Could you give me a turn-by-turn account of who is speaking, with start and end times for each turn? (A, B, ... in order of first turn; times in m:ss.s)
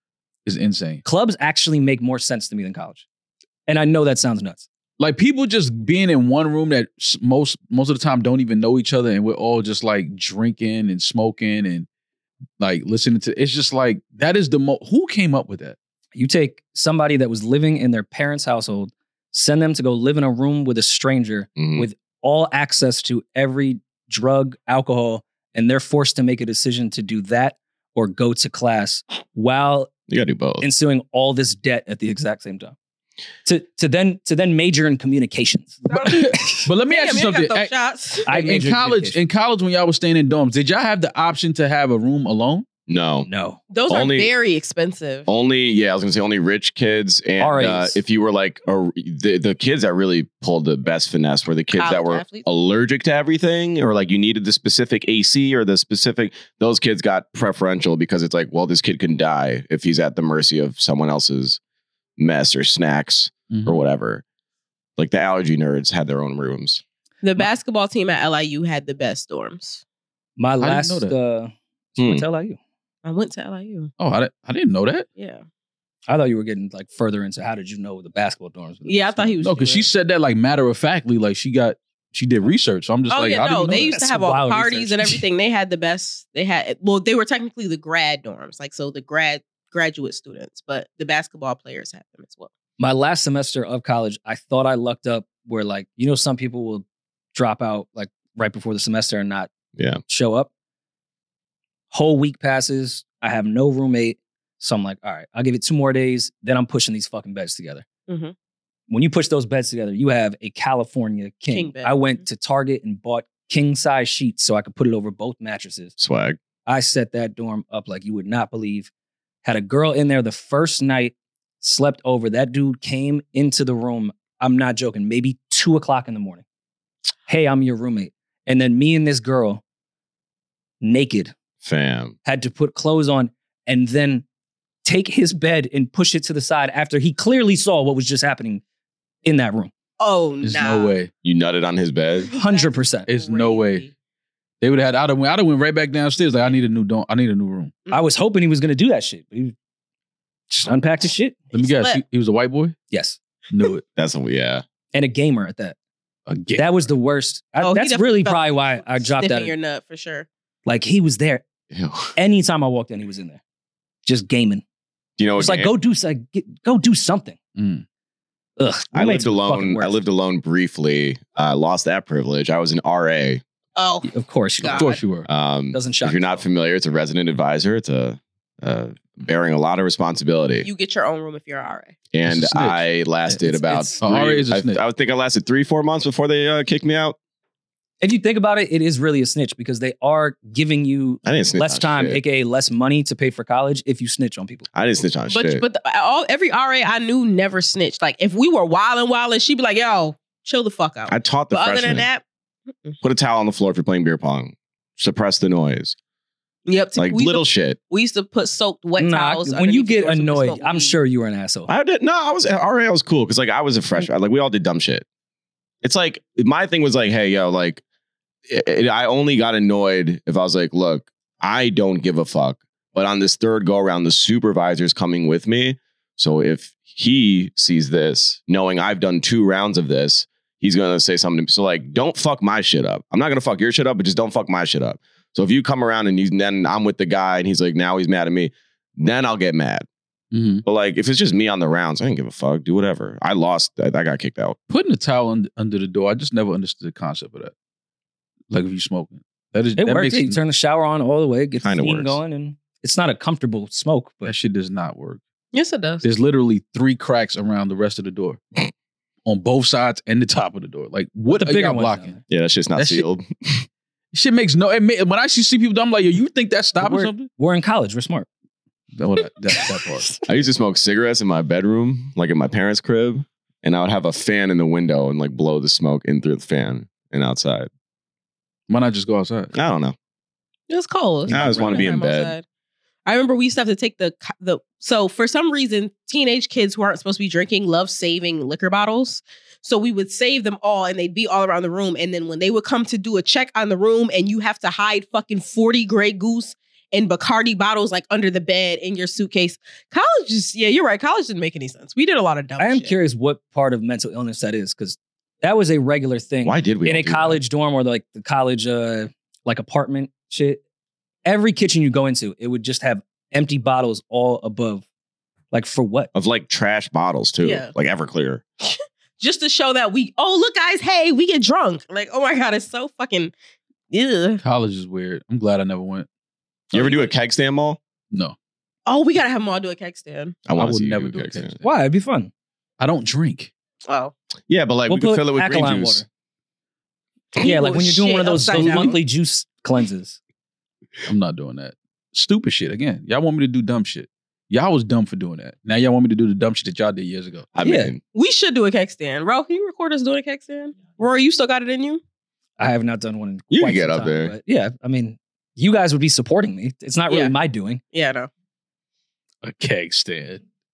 0:00.4-0:01.0 A
0:01.0-0:03.0 B
0:03.7-0:04.6 B
0:05.0-0:11.9 A
0:12.6-0:15.8 A
0:16.1-0:29.9 B
0:21.6-0:21.9 C
0:30.1-0:30.7 C
0:30.6-0:32.7 B
0:33.4-0:35.8 B
0:35.9-0:38.3 D
0:36.0-0:37.7 A
0:38.3-0:39.2 B
0:38.3-0:42.6 A
0:42.9-0:43.3 C
0:43.2-0:43.6 B
0:43.7-0:45.3 D
0:43.9-0:44.3 C
0:45.3-1:01.6 C
0:47.4-0:48.0 B
0:51.7-0:52.4 D
1:02.2-1:04.2 C
1:03.5-1:03.8 A
1:05.0-1:06.8 C
1:07.2-1:09.8 D
1:10.4-1:12.6 B
1:10.6-1:11.1 A
1:12.0-1:12.2 C
1:13.0-1:13.9 D
1:14.0-1:15.1 A
1:15.2-1:15.4 D
1:16.1-1:19.3 B
1:18.8-1:19.9 D
1:19.4-1:24.0 A
1:23.1-1:32.5 D
1:23.9-1:25.2 B
1:32.8-1:39.5 B
1:40.1-1:40.5 B
1:41.9-1:47.8 B
1:48.1-1:48.3 D
1:48.9-1:55.9 B
1:51.5-1:52.0 D
1:56.0-1:56.4 C
1:56.6-1:58.9 B
1:59.4-2:06.4 B
2:07.3-2:09.6 B
2:10.8-2:11.3 B
2:11.6-2:12.1 C
2:12.2-2:14.2 B
2:14.8-2:18.6 B
2:19.2-2:19.7 B
2:20.0-2:21.0 D
2:20.4-2:21.1 A
2:21.2-2:22.3 C
2:22.2-2:23.9 D
2:22.3-2:23.1 B
2:23.1-2:23.9 A
2:24.6-2:27.7 A
2:27.9-2:29.5 B
2:30.6-2:31.4 B
2:31.5-2:32.7 A
2:31.5-2:32.0 D
2:32.9-2:33.2 B
2:33.5-2:33.8 A
2:34.0-2:34.6 C
2:34.9-2:35.8 B
2:36.3-2:36.9 A
2:36.6-2:39.5 B
2:37.6-2:40.3 D
2:40.6-2:41.4 B
2:41.7-2:42.1 C
2:42.2-2:43.4 B
2:44.0-2:44.6 B
2:45.2-2:45.7 C
2:45.4-2:47.4 B
2:47.6-2:47.8 A
2:48.6-2:50.0 B
2:48.9-2:53.4 C
2:53.8-2:55.0 D
2:54.1-2:54.9 B
2:54.7-2:55.3 A
2:55.3-3:00.7 C
2:55.7-2:56.4 B
3:00.6-3:01.9 D
3:02.1-3:07.2 C
3:02.2-3:04.8 A
3:03.5-3:03.9 B
3:08.0-3:14.7 B
3:11.2-3:12.2 C
3:14.7-3:15.6 C
3:15.3-3:22.2 D
3:21.1-3:22.1 C
3:23.0-3:26.0 C
3:26.7-3:31.0 D
3:27.0-3:27.8 C
3:29.0-3:31.7 B
3:31.7-3:35.0 C
3:35.8-3:37.8 C
3:38.5-3:59.9 C
4:00.3-4:00.6 A
4:00.6-4:04.6 C
4:04.7-4:07.5 A
4:08.5-4:10.4 A
4:09.8-4:14.3 B
4:11.6-4:12.2 C
4:14.2-4:15.2 A
4:15.5-4:16.0 D
4:16.0-4:18.4 A
4:19.2-4:22.2 A
4:21.3-4:22.2 B
4:22.3-4:23.6 C
4:22.8-4:23.0 A
4:24.1-4:27.3 A
4:26.8-4:28.3 B
4:28.9-4:30.1 A
4:29.6-4:30.2 B
4:30.3-4:37.7 C
4:38.7-4:39.5 A
4:39.5-4:40.0 C
4:40.7-4:42.4 D
4:41.3-4:41.9 A
4:41.3-4:42.3 C
4:43.0-5:02.9 D
5:02.6-5:10.6 B
5:06.4-5:07.4 C
5:11.2-5:14.8 B
5:15.5-5:16.1 B
5:16.1-5:18.4 C
5:17.4-5:17.7 D
5:18.6-5:23.3 D
5:23.9-5:24.4 D
5:24.4-5:26.1 A
5:26.7-5:27.8 C
5:28.1-5:28.4 A
5:28.8-5:30.4 D
5:30.4-5:31.5 C
5:30.6-5:31.7 A
5:31.6-5:32.3 B
5:32.8-5:33.5 A
5:33.9-5:34.1 D
5:34.5-5:36.0 C
5:34.9-5:36.0 B
5:37.3-5:39.0 D
5:37.4-5:40.2 B
5:41.0-5:47.5 A
5:47.5-5:48.0 C
5:47.6-5:47.9 B
5:48.1-5:52.0 D
5:52.6-5:57.8 B
5:53.5-5:54.3 C
5:57.1-5:57.3 D
5:57.9-5:58.3 D
5:59.4-6:00.4 A